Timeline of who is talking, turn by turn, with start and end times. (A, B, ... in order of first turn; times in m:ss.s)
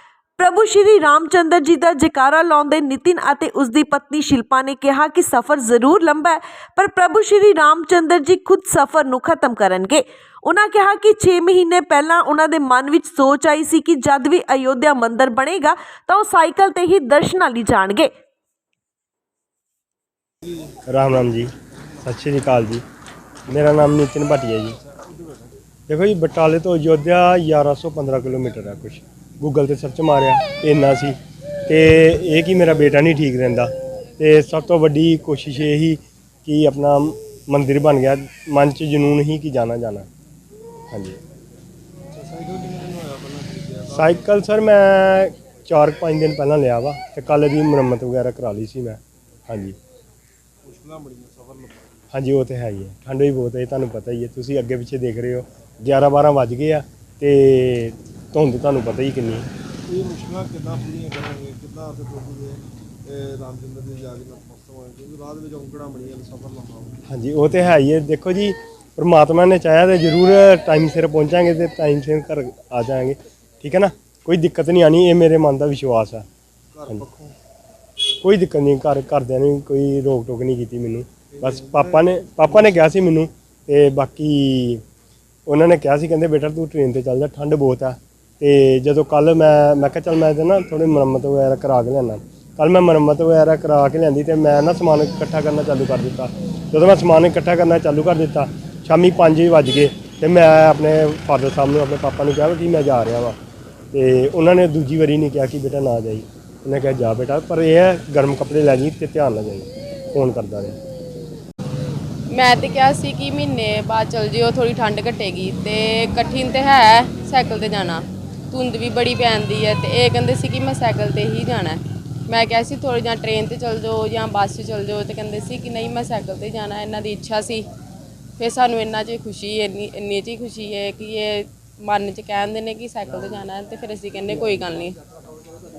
0:00.4-0:18.1 A
0:20.4-0:20.8 B
0:20.9-0:22.8 C
0:23.5-0:24.8 C
0:24.8-0:25.6 B
0:25.9-0:31.2 C
0:31.7-0:40.1 C
0:40.9-0:41.2 C
0:42.1-0:44.3 B
0:43.9-0:49.8 C
0:50.6-0:52.1 B
0:52.1-0:59.5 C
0:59.9-1:07.0 B
1:07.1-1:16.2 C
1:16.7-1:17.4 B
1:18.2-1:24.8 C
1:21.3-1:22.9 B
1:25.5-1:43.4 C
1:43.9-1:50.8 C
1:52.3-2:07.6 D
2:08.4-2:15.0 D